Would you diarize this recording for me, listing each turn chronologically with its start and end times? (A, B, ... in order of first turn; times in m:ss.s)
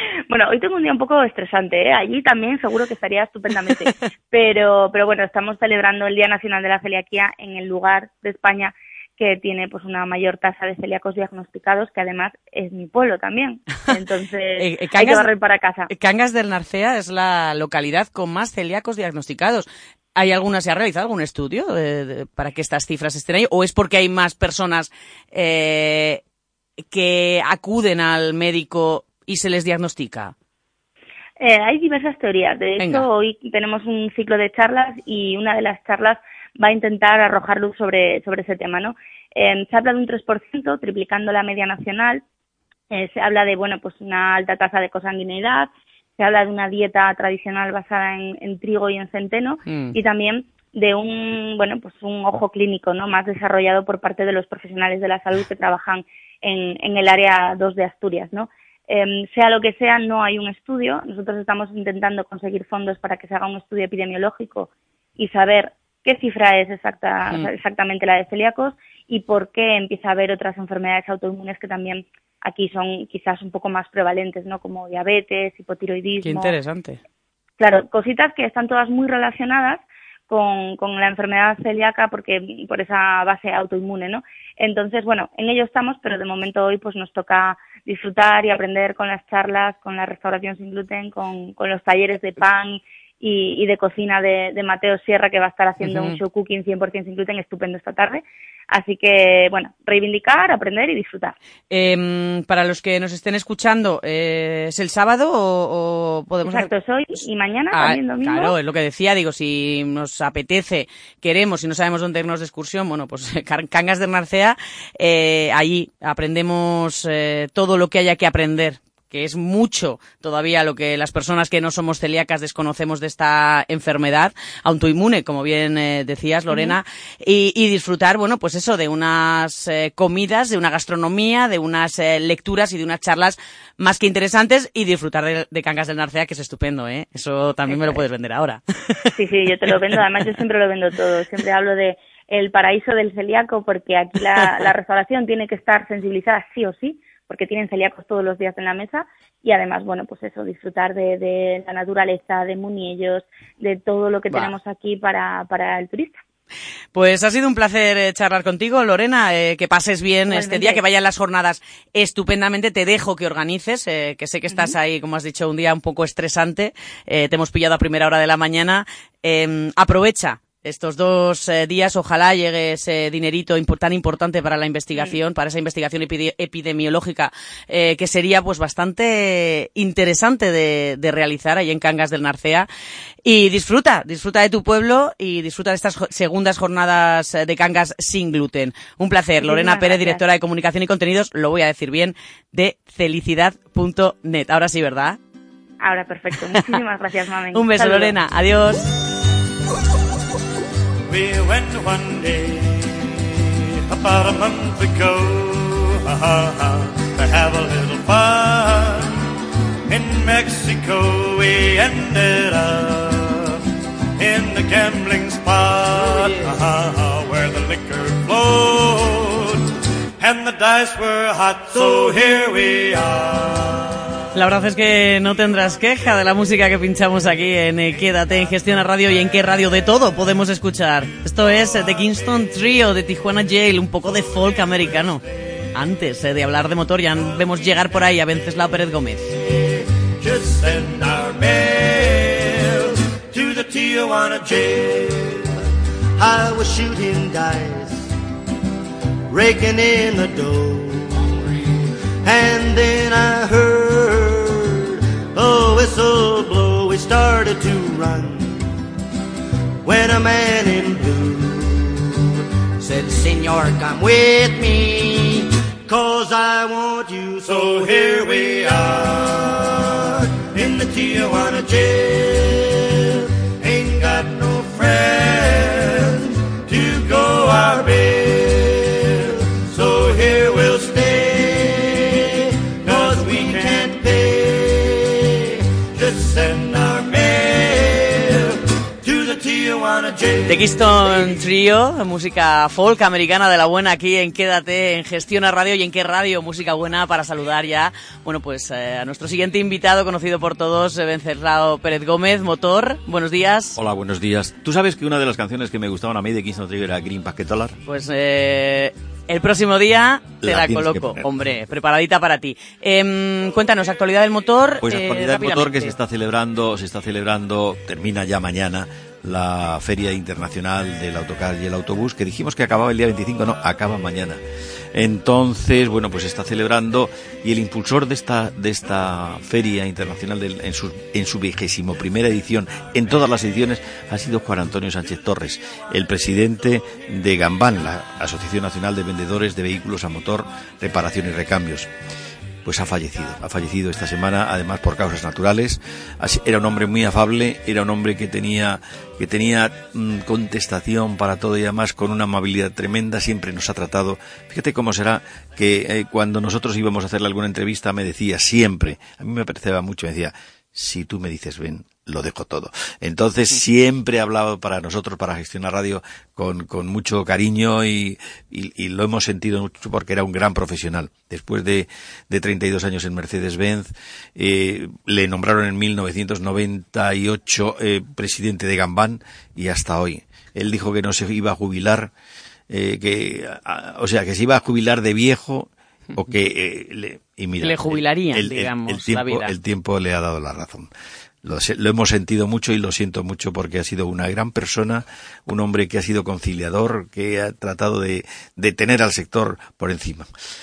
0:00.3-0:15.9 A
0:14.6-0:15.3 B
0:15.9-0:26.2 B
0:26.9-0:30.3 B
0:31.4-0:42.2 A
0:32.8-0:33.1 B
0:42.9-1:16.6 A
0:49.7-0:50.0 B
1:16.2-1:17.0 B
1:17.6-1:41.4 A
1:35.8-1:36.2 B
1:41.7-1:46.7 B
1:46.4-1:48.6 A
1:47.7-2:19.1 B
2:06.5-2:06.8 A
2:17.7-2:18.0 A
2:19.2-2:36.2 A
2:19.7-2:20.0 B
2:34.3-2:34.6 B
2:36.9-3:02.7 B
2:40.3-2:40.8 A
2:44.5-2:44.8 A
3:03.2-3:15.2 B
3:09.4-3:10.2 A
3:15.8-3:18.2 A
3:17.5-3:18.9 B
3:21.1-3:29.2 C
3:29.9-3:33.6 C
3:34.2-3:39.6 C
3:36.1-3:36.4 B
3:40.2-3:43.9 C
3:44.3-3:55.2 B
3:55.7-3:59.4 B
3:59.5-4:05.5 C
4:06.2-4:08.1 C
4:09.3-4:18.7 C
4:19.8-4:22.3 C
4:22.8-4:45.4 C
4:45.9-4:50.9 C
4:50.5-5:03.8 B
5:03.8-5:07.8 D
5:07.9-5:16.0 B
5:10.4-5:11.3 D
5:14.8-5:24.4 D
5:24.9-5:41.9 D
5:42.6-6:22.1 D
6:22.7-6:30.9 D
6:27.6-6:29.5 B
6:31.4-6:40.3 D